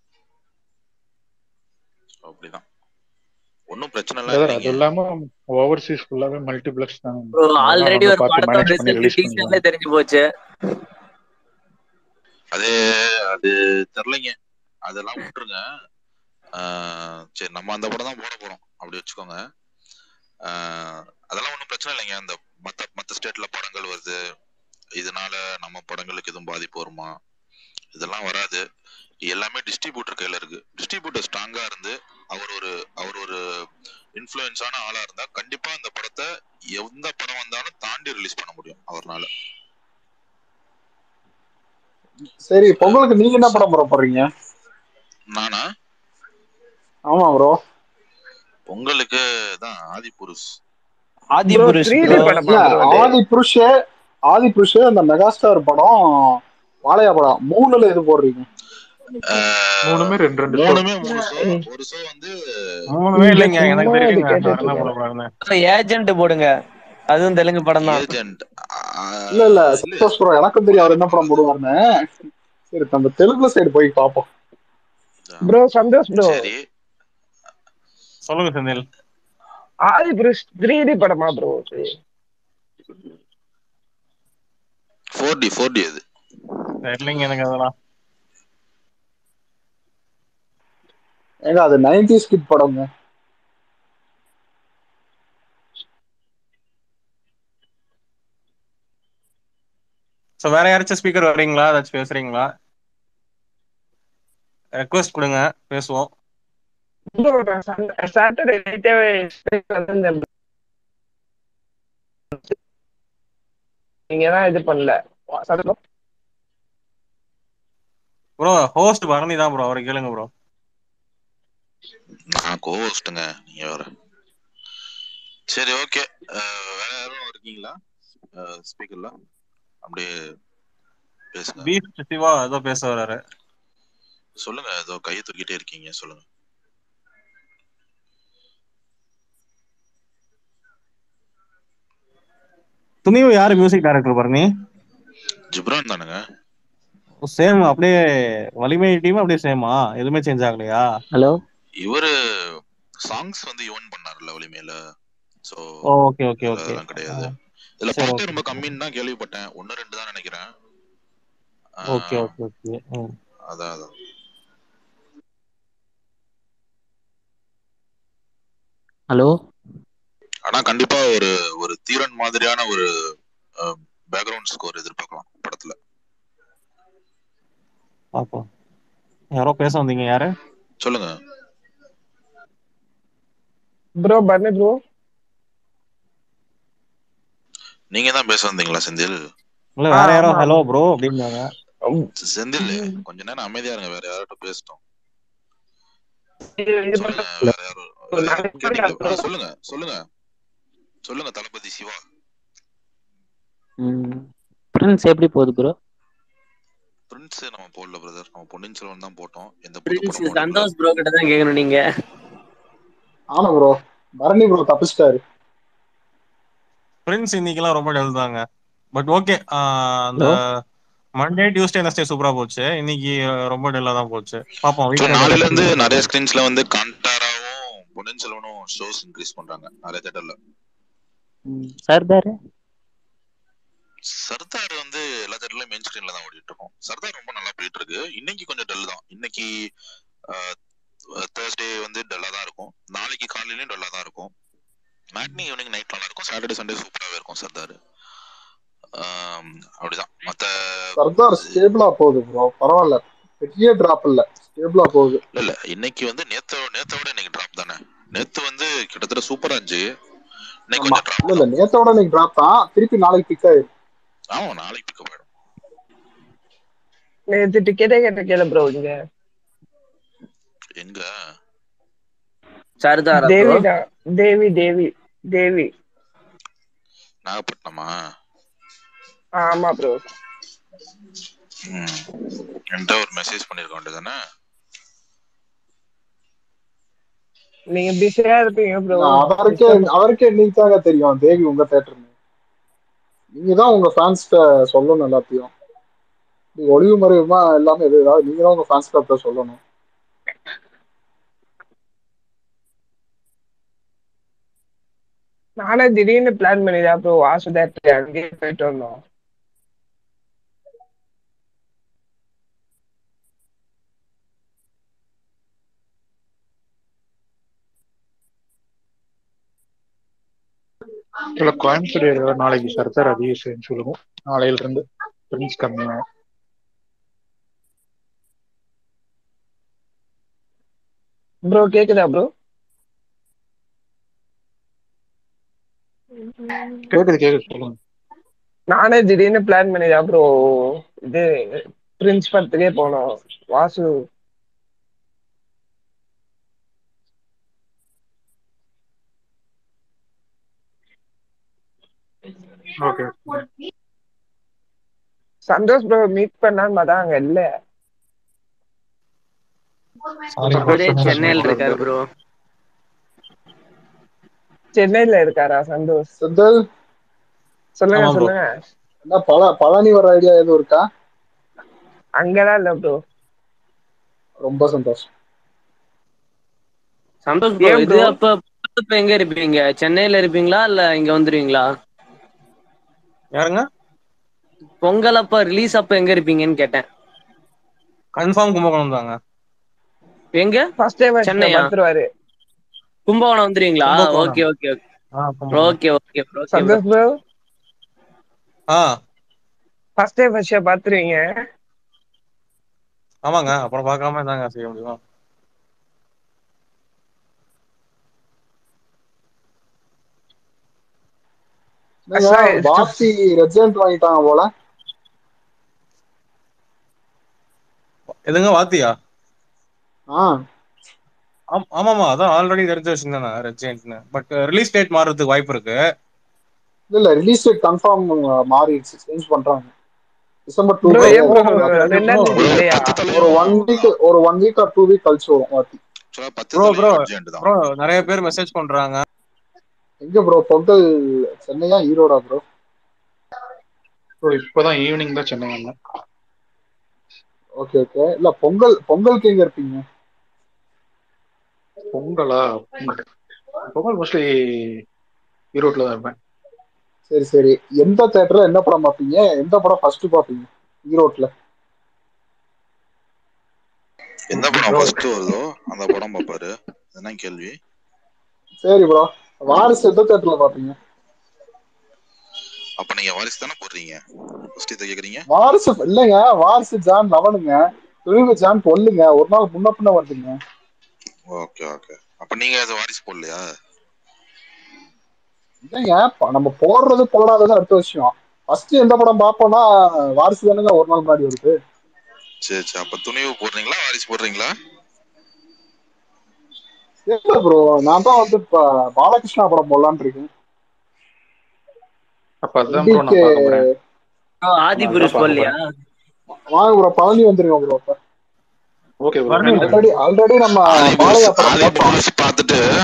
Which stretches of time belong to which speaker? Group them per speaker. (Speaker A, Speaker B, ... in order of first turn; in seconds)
Speaker A: 2.2-2.6, 3.7-4.8, 13.3-14.3, 14.9-15.6, 16.6-19.4, 20.5-24.2, 25.0-27.1, 27.9-28.6, 29.3-33.4, 34.2-36.2, 36.8-39.3, 42.7-43.6, 45.4-45.6, 48.7-50.5, 59.3-62.3, 67.8-70.1, 70.7-71.4, 76.2-76.6, 85.2-86.0, 122.3-123.8, 125.5-127.8, 128.4-129.1, 129.8-130.1, 131.3-131.7, 134.4-136.2, 145.5-146.2, 151.8-152.1, 153.1-154.8, 156.4-160.5, 161.9-162.3, 163.5-163.9, 170.5-172.9, 173.6-175.8, 180.8-181.1, 187.9-189.2, 192.3-194.8, 196.9-200.0, 201.1-202.0, 207.1-210.7, 225.0-230.3, 234.2-239.5, 241.3-244.3, 245.1-247.8, 249.0-251.0, 255.3-259.8, 260.7-261.5, 264.3-265.2, 270.8-271.0, 277.3-277.9, 281.7-282.1, 282.7-284.1, 432.4-433.9, 436.1-437.5, 464.3-467.6, 472.8-474.0, 474.5-475.3, 481.3-483.4, 492.4-494.5, 510.7-512.6
Speaker B: 4.3-9.6, 59.9-61.0, 321.4-326.0, 336.9-337.8, 352.8-353.4, 360.5-361.9, 444.2-445.7, 451.9-453.1, 453.8-454.2, 455.6-456.1, 502.4-503.7, 504.8-505.5, 509.0-509.9
Speaker C: 7.4-10.2, 51.5-52.1, 65.5-66.5, 67.1-68.1, 209.9-211.8, 272.8-273.6, 360.6-362.0, 377.3-381.7, 384.8-386.8, 391.2-391.7, 393.1-394.8, 395.5-396.8, 504.4-505.6
Speaker D: 42.5-44.2, 47.1-47.6, 52.0-53.7, 54.3-58.5, 69.3-71.8, 72.7-74.3, 91.5-92.9, 213.3-215.2, 251.0-255.2, 260.8-263.7, 288.9-292.1, 293.4-295.5, 296.6-299.6, 366.2-366.6, 369.1-370.9, 374.4-375.1, 412.1-414.5, 426.9-429.7, 430.5-432.4, 433.1-435.8, 440.0-440.8, 441.4-442.4, 447.6-449.8, 457.1-461.3, 468.6-470.8, 475.3-480.4, 485.6-491.6, 497.1-500.3, 502.7-503.6, 506.5-508.0, 509.6-512.0
Speaker E: 51.5-53.1, 61.1-61.6, 63.2-64.9, 75.5-76.5, 79.9-81.9, 107.2-110.3, 114.1-115.8, 184.0-184.8, 189.9-190.5, 192.6-193.0, 196.6-197.3, 198.1-199.2, 267.3-268.9, 273.2-275.7, 279.4-280.0, 287.8-289.9, 305.6-309.0, 331.5-332.3, 338.7-340.2, 341.1-343.9, 355.5-357.5, 364.8-366.1, 367.8-368.5, 372.2-372.9, 377.6-378.2, 390.8-392.1, 396.5-397.1, 400.0-401.2, 412.2-412.9, 430.9-432.9
Speaker F: 62.9-65.3, 78.3-78.8, 86.8-87.7, 100.4-102.5, 104.8-106.1, 118.4-120.3, 131.6-133.2, 143.1-144.4, 147.3-148.0, 148.6-150.8, 156.0-157.3, 157.9-158.7, 161.9-163.1, 178.2-178.5, 179.4-180.3, 189.8-191.4, 217.1-218.4, 218.9-220.4, 221.2-226.0, 360.4-361.6, 367.9-368.3, 383.4-383.6, 388.2-389.1, 395.2-395.8, 403.2-405.0, 418.3-418.9, 421.6-425.8, 430.9-432.4, 436.6-439.0, 509.3-509.8
Speaker G: 203.8-204.2, 204.8-205.7, 231.5-232.3